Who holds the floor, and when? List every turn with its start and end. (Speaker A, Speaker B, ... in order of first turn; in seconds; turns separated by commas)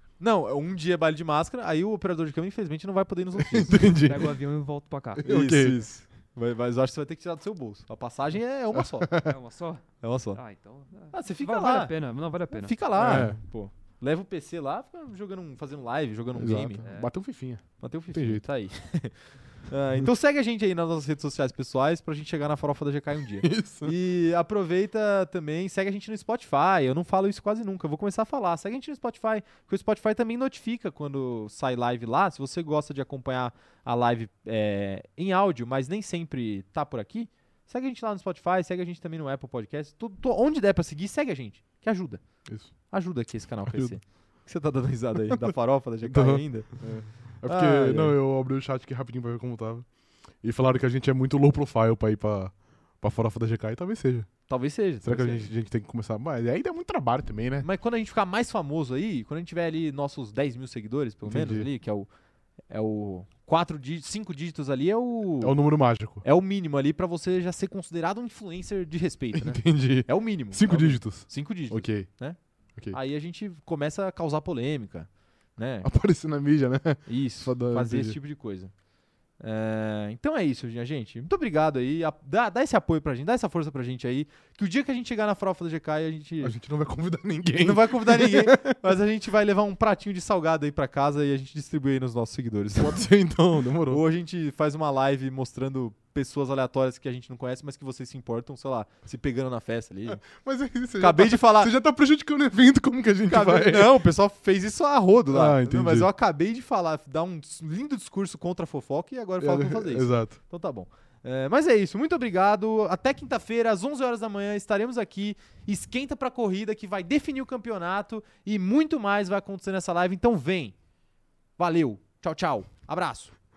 Speaker A: 0.2-3.9, Speaker B: 3.4-4.3, Speaker C: 3.9-5.2, Speaker B: 5.2-5.8, Speaker A: 5.2-9.1, Speaker B: 8.7-9.3, Speaker C: 9.2-13.2, Speaker A: 10.0-10.4, Speaker A: 11.1-16.8, Speaker B: 12.9-13.4, Speaker B: 16.3-18.5, Speaker C: 16.8-17.1, Speaker A: 17.8-42.2, Speaker B: 23.4-23.9, Speaker B: 42.5-42.7, Speaker A: 42.8-48.1, Speaker B: 43.6-44.0, Speaker B: 46.0-49.9, Speaker B: 50.4-54.3, Speaker A: 54.5-55.5, Speaker B: 55.0-57.6, Speaker A: 57.6-62.1, Speaker B: 61.2-61.7, Speaker A: 62.7-65.5, Speaker B: 65.4-66.2, Speaker A: 66.2-72.4, Speaker B: 69.3-72.1, Speaker A: 72.9-75.9, Speaker B: 75.8-78.2, Speaker A: 77.0-78.7, Speaker A: 79.4-86.5, Speaker B: 86.4-88.8, Speaker A: 87.6-93.0, Speaker B: 92.8-94.0, Speaker A: 93.9-100.2, Speaker B: 100.2-104.0, Speaker A: 101.0-101.7, Speaker A: 103.3-120.7, Speaker B: 105.3-106.1, Speaker B: 109.4-110.3, Speaker A: 121.6-123.3